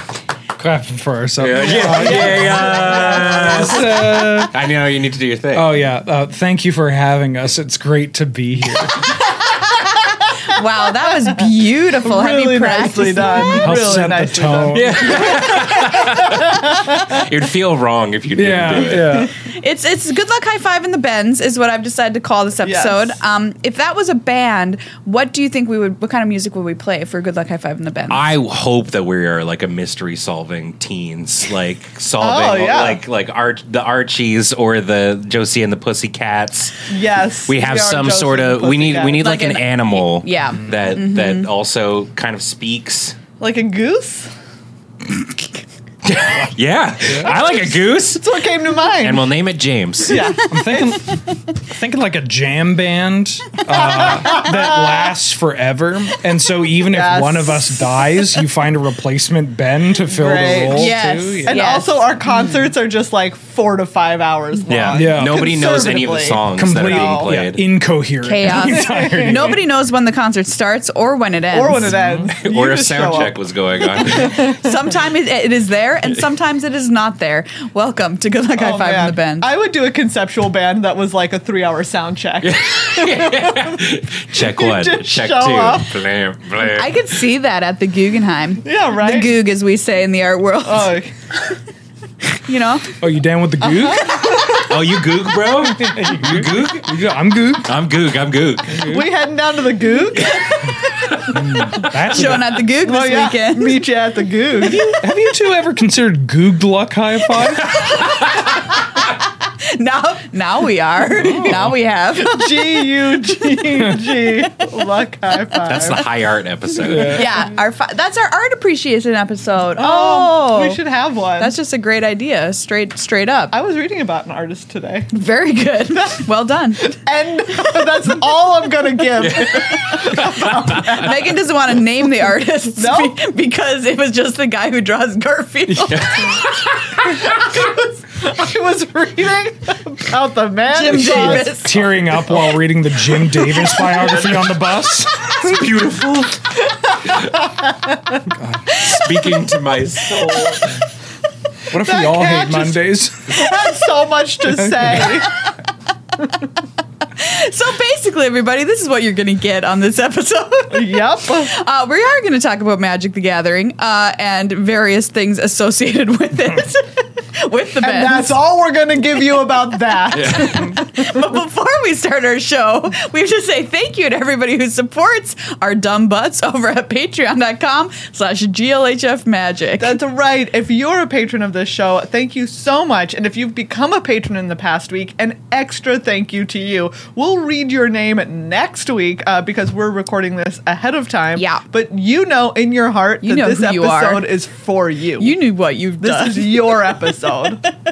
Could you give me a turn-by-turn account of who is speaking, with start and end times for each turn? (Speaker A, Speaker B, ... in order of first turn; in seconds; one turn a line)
Speaker A: 0.6-4.5
Speaker B: 1.4-5.7
Speaker C: 1.6-4.1
Speaker A: 5.5-9.1
Speaker D: 10.5-14.0
Speaker C: 11.0-11.4
Speaker C: 12.0-17.2
Speaker A: 13.6-15.3
Speaker B: 14.7-19.0
Speaker A: 18.3-19.3
Speaker D: 19.3-28.3
Speaker C: 22.6-23.1
Speaker B: 28.1-36.9
Speaker C: 32.2-33.0
Speaker C: 36.9-39.4
Speaker B: 37.5-43.2
Speaker D: 39.2-41.5
Speaker A: 40.5-40.9
Speaker C: 43.4-44.3
Speaker B: 46.0-48.2
Speaker A: 47.0-47.4
Speaker C: 48.1-49.3
Speaker B: 49.0-50.3
Speaker C: 50.0-50.8
Speaker A: 50.5-61.8
Speaker C: 53.8-54.9
Speaker C: 56.8-57.8
Speaker C: 60.1-67.4
Speaker D: 60.7-62.5
Speaker B: 64.7-67.6
Speaker A: 64.9-65.5
Speaker A: 66.5-69.6
Speaker D: 68.2-71.9
Speaker C: 68.5-69.6
Speaker C: 71.5-73.4
Speaker A: 71.8-72.3
Speaker B: 72.3-74.6
Speaker C: 73.9-74.6
Speaker D: 74.3-79.5
Speaker C: 78.6-83.8
Speaker B: 82.4-87.0
Speaker C: 84.3-86.0
Speaker D: 86.6-91.0
Speaker C: 88.6-89.4
Speaker C: 90.6-91.1
Speaker D: 92.3-93.0
Speaker A: 93.0-94.5
Speaker C: 93.6-94.6
Speaker B: 94.5-97.0
Speaker A: 95.6-97.7
Speaker B: 97.6-98.9
Speaker A: 98.7-99.1
Speaker C: 98.8-100.5
Speaker B: 100.2-101.4
Speaker A: 101.3-102.7
Speaker D: 102.0-103.9
Speaker C: 102.8-105.0
Speaker D: 104.6-105.0
Speaker A: 105.0-107.8
Speaker D: 107.6-112.8
Speaker B: 107.8-108.2
Speaker A: 111.2-111.7
Speaker C: 112.1-116.1
Speaker B: 115.6-117.3
Speaker A: 116.8-117.3
Speaker D: 117.0-120.8
Speaker C: 119.8-121.5
Speaker D: 121.4-123.5
Speaker C: 123.5-125.1
Speaker D: 125.1-127.0
Speaker C: 127.0-131.4
Speaker B: 129.2-130.9
Speaker D: 130.8-136.4
Speaker C: 132.8-133.2
Speaker A: 135.7-136.0
Speaker B: 135.9-137.5
Speaker C: 137.5-141.5
Speaker D: 140.7-141.8
Speaker A: 140.9-145.5
Speaker B: 143.9-144.5
Speaker B: 145.1-147.3
Speaker A: 148.3-148.7
Speaker B: 148.7-150.8
Speaker A: 151.7-153.4
Speaker C: 151.7-155.4
Speaker A: 154.4-155.1
Speaker D: 157.1-168.3
Speaker C: 160.7-161.5
Speaker C: 167.8-171.1
Speaker B: 170.1-170.7
Speaker D: 170.1-180.0
Speaker C: 179.8-195.3
Speaker D: 191.3-191.6
Speaker D: 193.2-194.3
Speaker D: 195.2-196.9
Speaker C: 196.0-197.7